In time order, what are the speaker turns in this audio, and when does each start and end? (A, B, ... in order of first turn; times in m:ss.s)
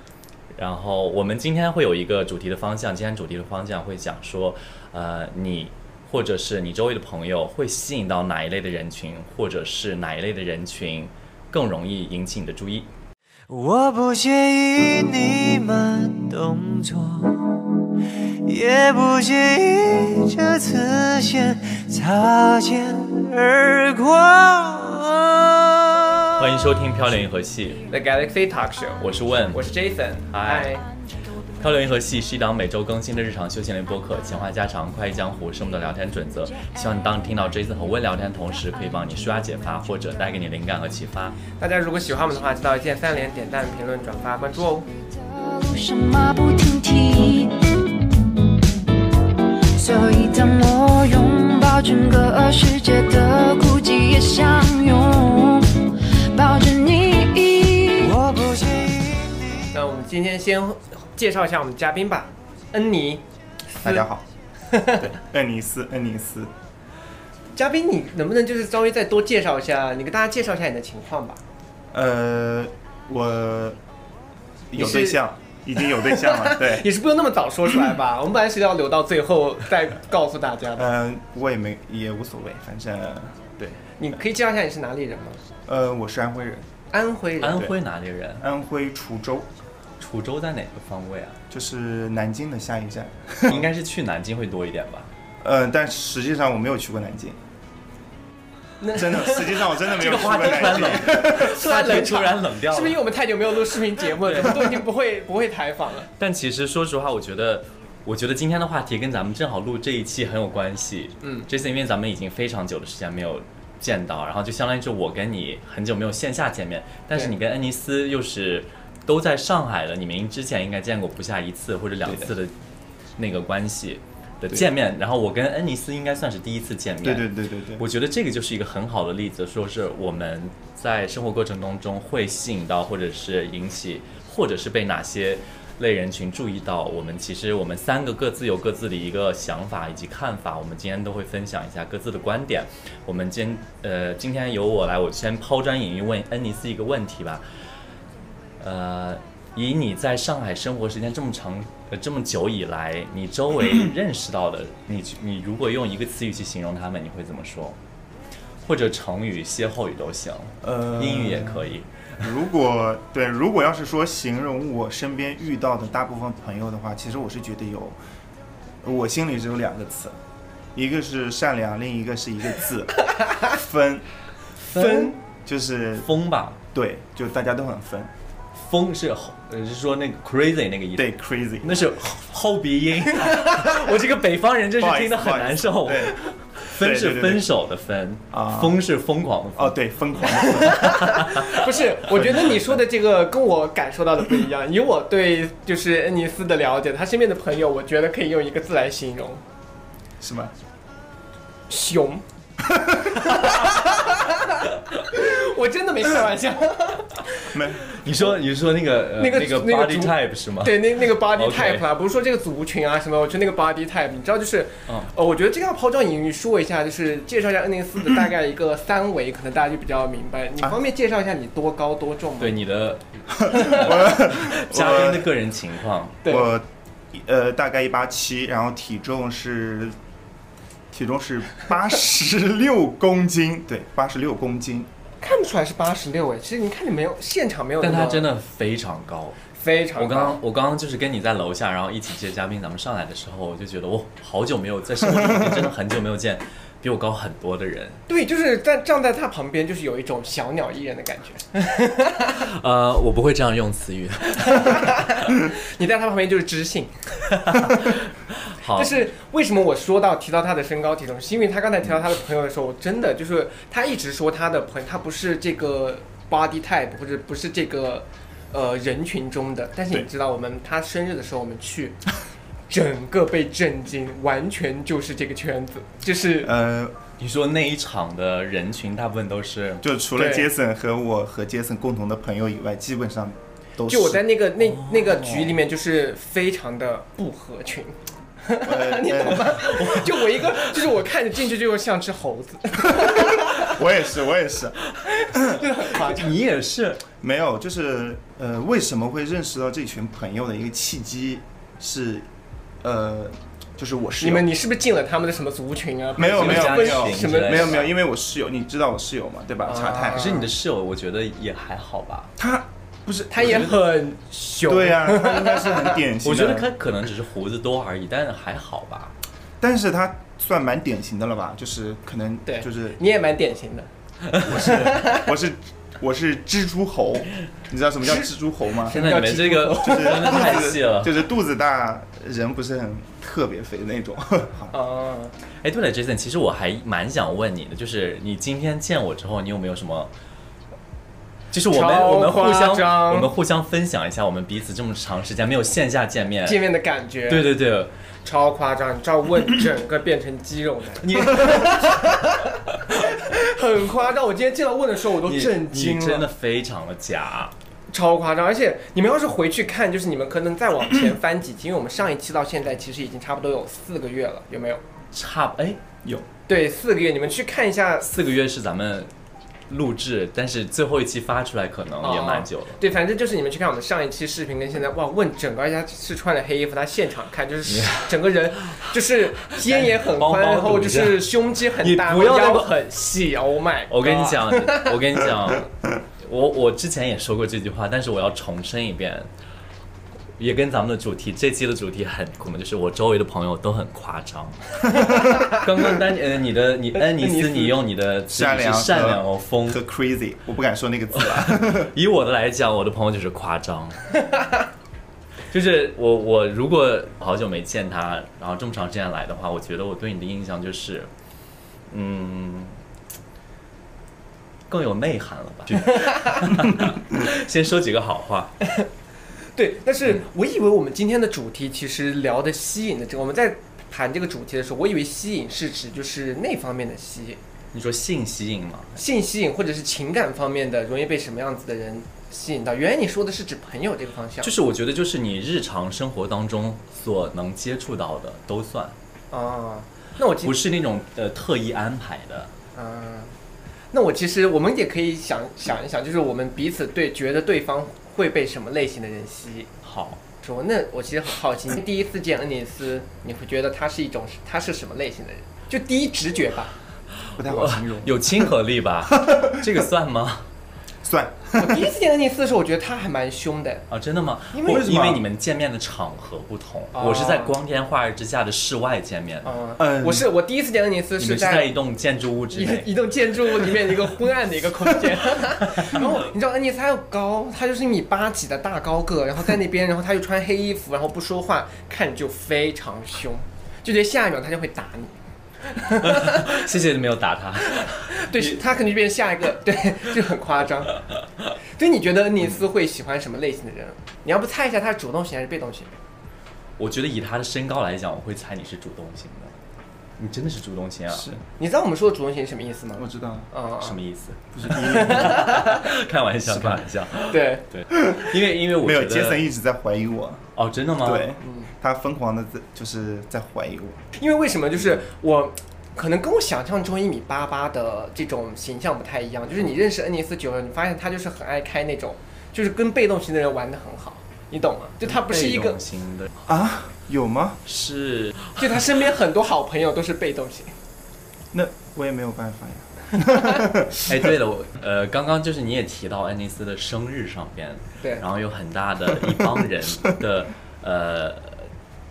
0:00.5-0:12.9 A
0:13.5-0:26.5 B
0:26.4-0:27.8 A
0:27.9-0:30.8 C
0:29.0-0:29.6 A
0:30.3-0:30.7 A
0:31.6-0:41.4 A
0:41.6-0:44.9 C
0:45.2-0:47.5 D
0:49.8-0:58.1 D
0:57.8-0:59.7 B
0:59.7-1:04.0 C
1:03.8-1:04.2 E
1:04.7-1:05.0 C
1:04.9-1:06.5 E
1:07.5-1:11.4 C
1:11.9-1:13.8 E
1:14.7-1:16.9 E
1:14.8-1:15.2 C
1:15.8-1:20.9 C
1:20.7-1:23.7 E
1:24.0-1:25.4 C
1:25.7-1:26.7 E
1:26.9-1:27.7 C
1:27.4-1:28.4 A
1:28.4-1:29.5 E
1:30.0-1:31.4 A
1:31.5-1:33.7 E
1:33.4-1:35.1 A
1:35.4-1:37.4 E
1:38.8-1:46.1 C
1:38.9-1:41.5 E
1:39.9-1:43.0 A
1:44.2-1:44.6 A
1:46.2-2:02.5 A
1:51.2-1:51.5 C
2:02.0-2:02.3 E
2:03.2-2:27.4 A
2:07.0-2:07.8 E
2:28.6-2:37.8 A
2:38.6-2:41.9 A
2:40.6-2:48.0 E
2:48.8-2:50.2 E
2:50.7-2:54.1 E
2:54.6-2:55.1 A
2:54.7-2:55.1 C
2:55.4-2:56.1 E
2:56.0-2:56.6 A
2:56.7-2:58.1 E
2:58.5-3:01.1 A
3:01.0-3:01.7 E
3:01.6-3:09.8 A
3:03.2-3:03.6 C
3:04.8-3:07.5 E
3:08.3-3:08.8 E
3:09.6-3:11.1 E
3:10.3-3:19.4 C
3:10.7-3:11.6 A
3:20.2-3:20.5 E
3:21.7-3:22.2 C
3:22.7-3:23.0 E
3:23.0-3:27.5 C
3:27.5-3:27.8 E
3:27.8-3:31.8 A
3:29.2-3:42.6 C
3:42.4-3:46.2 A
3:43.4-3:45.3 E
3:46.2-3:46.5 C
3:46.2-3:50.0 E
3:50.9-3:54.9 E
3:55.2-3:58.3 C
3:57.8-3:59.4 A
3:59.5-4:00.4 C
4:00.0-4:08.0 A
4:08.1-4:12.4 C
4:12.3-4:15.0 A
4:14.4-4:17.3 C
4:17.4-4:19.0 A
4:18.8-4:32.0 C
4:32.7-4:36.5 C
4:36.4-4:37.0 E
4:37.2-4:39.8 A
4:39.8-4:44.3 E
4:40.1-4:40.5 C
4:43.9-4:53.8 C
4:44.6-4:45.6 A
4:48.6-4:49.9 E
4:49.6-4:50.0 A
4:52.8-4:54.8 E
4:55.2-4:56.4 C
4:55.8-4:57.0 A
4:57.2-5:02.2 E
5:02.8-5:04.5 E
5:04.2-5:07.9 C
5:06.2-5:10.3 E
5:06.2-5:07.9 A
5:09.6-5:10.5 C
5:10.0-5:12.3 A
5:12.4-5:13.9 E
5:13.3-5:16.0 C
5:14.6-5:16.7 E
5:16.2-5:19.1 A
5:19.6-5:23.0 E
5:22.5-5:23.9 C
5:24.3-5:24.7 A
5:24.4-5:29.0 E
5:24.6-5:25.3 C
5:28.8-5:30.7 C
5:28.9-5:31.2 A
5:29.8-5:34.7 E
5:34.7-5:35.3 C
5:35.6-5:40.1 A
5:41.5-5:46.6 A
5:41.7-5:43.3 C
5:46.4-5:47.5 C
5:47.3-5:47.9 A
5:48.2-5:56.3 C
5:51.0-5:51.9 A
5:55.2-5:57.5 A
5:57.9-6:04.8 C
6:05.1-6:05.8 A
6:06.5-6:08.1 C
6:08.0-6:09.1 A
6:09.7-6:12.8 A
6:12.0-6:25.1 C
6:17.7-6:18.1 A
6:19.5-6:22.7 A
6:23.9-6:29.3 A
6:30.4-6:39.8 A
6:37.2-6:37.8 C
6:38.3-6:41.9 E
6:41.2-6:44.0 A
6:45.5-6:51.1 A
6:51.9-6:52.8 A
6:54.7-6:58.6 A
6:55.9-6:56.3 C
6:59.5-7:07.4 C
7:07.7-7:09.0 A
7:09.0-7:14.5 C
7:14.4-7:19.0 A
7:19.3-7:20.6 C
7:20.4-7:22.5 A
7:22.7-7:23.4 C
7:23.9-7:29.7 C
7:29.8-7:30.2 A
7:30.4-7:36.7 C
7:37.3-7:40.5 A
7:37.4-7:38.5 E
7:39.1-7:39.6 E
7:41.0-7:41.9 E
7:41.5-7:43.8 C
7:43.9-7:49.5 A
7:44.5-7:44.9 C
7:44.6-7:45.2 E
7:46.9-7:47.5 C
7:49.4-7:51.7 C
7:49.8-7:50.3 E
7:51.2-7:52.9 A
7:52.5-8:05.2 C
7:55.6-7:56.0 A
8:05.7-8:06.6 C
8:06.0-8:08.6 A
8:07.7-8:11.0 C
8:11.7-8:15.9 C
8:16.8-8:19.6 A
8:20.2-8:21.3 A
8:21.1-8:21.4 E
8:21.6-8:24.0 C
8:23.0-8:23.5 E
8:23.8-8:29.5 A
8:24.5-8:25.6 E
8:24.7-8:25.9 C
8:26.4-8:26.8 E
8:27.3-8:27.6 C
8:28.7-8:30.5 E
8:30.6-8:31.3 A
8:31.0-8:34.0 E
8:31.4-8:31.7 C
8:34.1-8:45.8 C
8:45.0-8:46.3 A
8:46.4-8:47.6 E
8:47.6-8:48.5 A
8:48.6-8:50.7 C
8:51.5-8:54.3 E
8:54.0-9:01.7 A
8:59.2-8:59.6 E